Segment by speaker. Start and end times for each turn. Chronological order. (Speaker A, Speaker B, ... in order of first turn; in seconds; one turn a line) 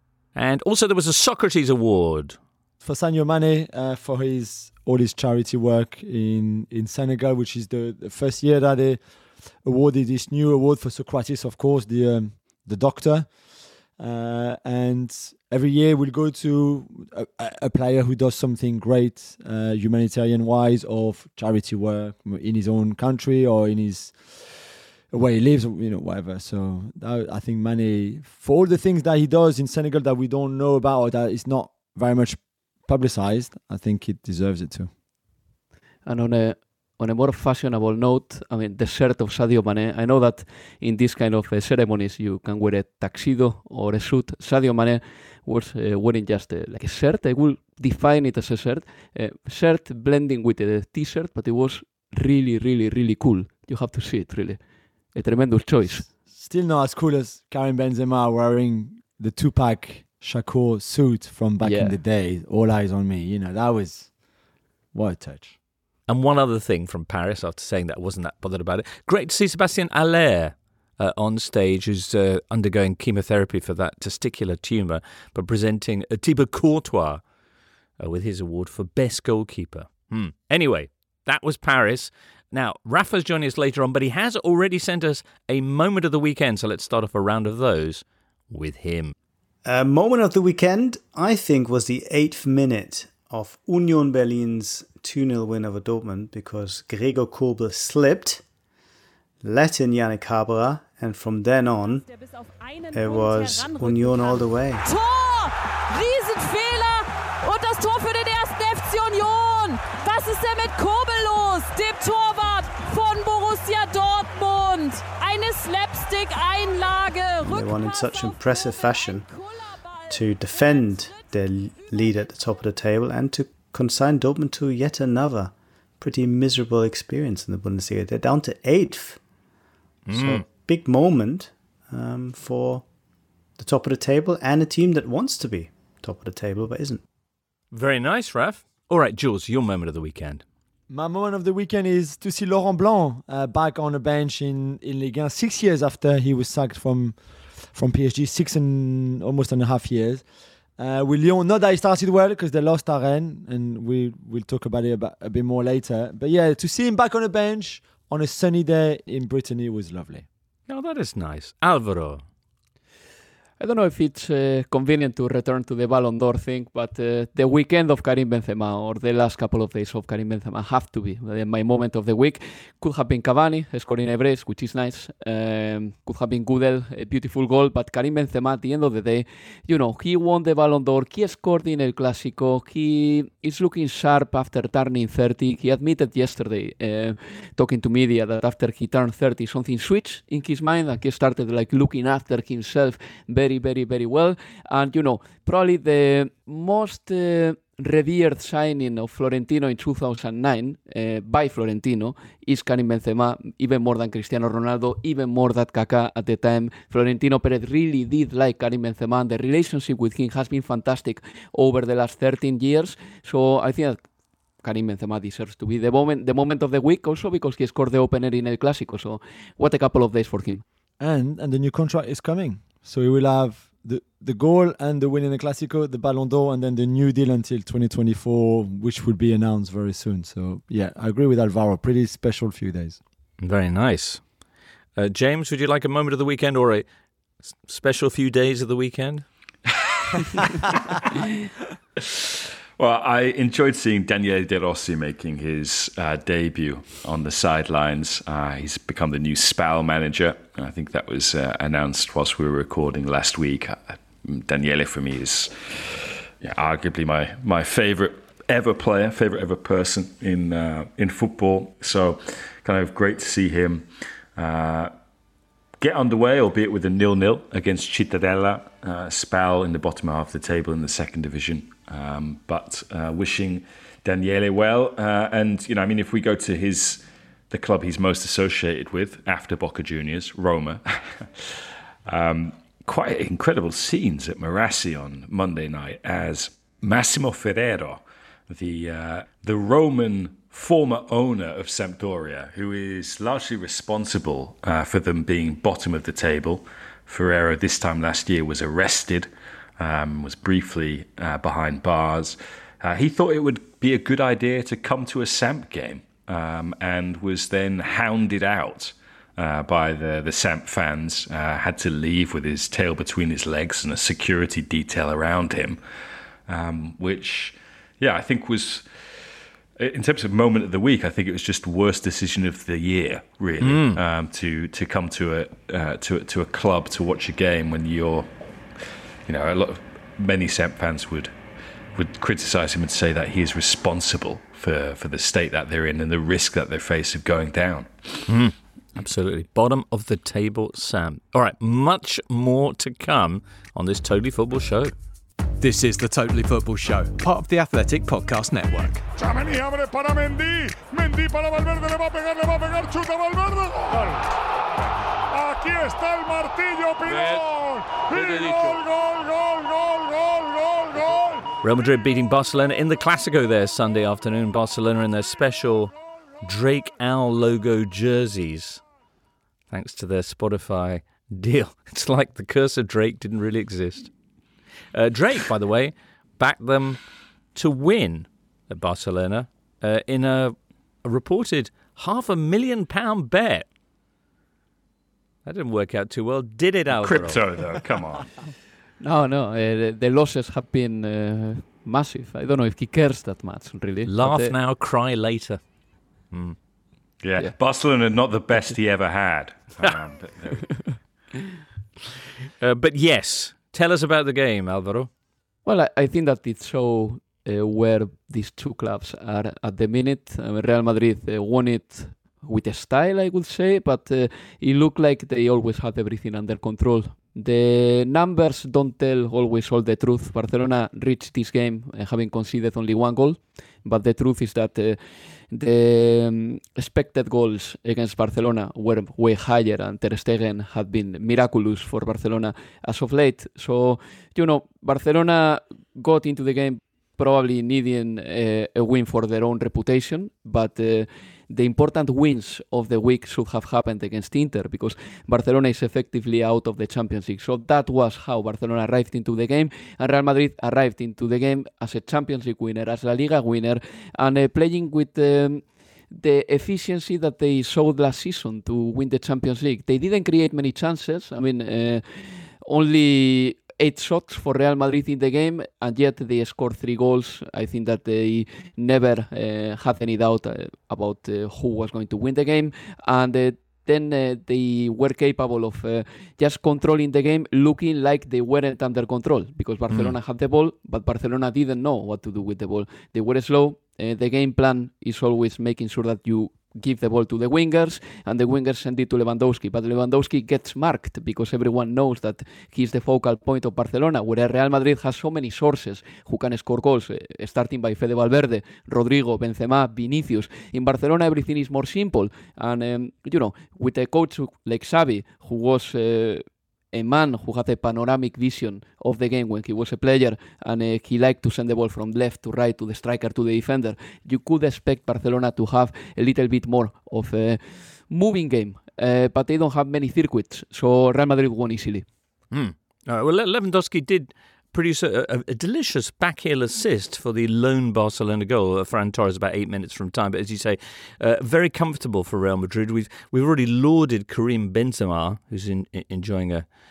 Speaker A: 0.3-2.4
Speaker B: 2.8-9.0
Speaker B: 9.6-13.3
Speaker B: 14.0-34.9
Speaker C: 36.0-54.6
Speaker C: 55.1-56.1
Speaker B: 56.1-64.1
Speaker C: 61.6-62.0
Speaker B: 64.9-65.5
Speaker A: 66.1-77.2
Speaker A: 78.0-89.1
Speaker D: 89.6-98.4
Speaker D: 99.4-102.0
Speaker E: 101.8-122.4
Speaker D: 102.9-104.8
Speaker D: 117.4-119.3
Speaker D: 120.1-129.2
Speaker A: 130.1-130.4
Speaker D: 130.1-132.8
Speaker D: 133.6-137.0
Speaker A: 137.7-140.4
Speaker B: 140.9-147.2
Speaker B: 147.7-150.2
Speaker B: 150.8-160.2
Speaker A: 160.7-162.2
Speaker C: 163.6-214.0
Speaker C: 214.6-220.6
Speaker B: 221.0-233.0
Speaker A: 233.4-234.2
Speaker A: 234.9-236.8
Speaker A: 237.5-239.2
Speaker F: 239.7-240.2
Speaker F: 242.8-264.9
Speaker F: 265.8-299.3
Speaker F: 299.8-315.8
Speaker F: 316.5-318.9
Speaker F: 319.8-328.3
Speaker A: 323.6-324.0
Speaker F: 329.3-331.3
Speaker F: 331.9-338.3
Speaker A: 338.3-344.9
Speaker G: 345.6-349.0
Speaker H: 349.1-354.3
Speaker H: 354.8-361.5
Speaker A: 361.6-365.9
Speaker A: 366.4-368.8
Speaker A: 369.7-374.1
Speaker A: 374.9-377.0
Speaker A: 377.5-383.7
Speaker A: 385.4-387.4
Speaker F: 386.9-388.3
Speaker C: 389.0-394.5
Speaker A: 394.0-395.6
Speaker A: 396.3-396.6
Speaker F: 397.2-400.9
Speaker A: 402.6-405.1
Speaker C: 405.6-425.0
Speaker C: 425.5-522.1
Speaker A: 479.9-480.1
Speaker A: 522.5-536.6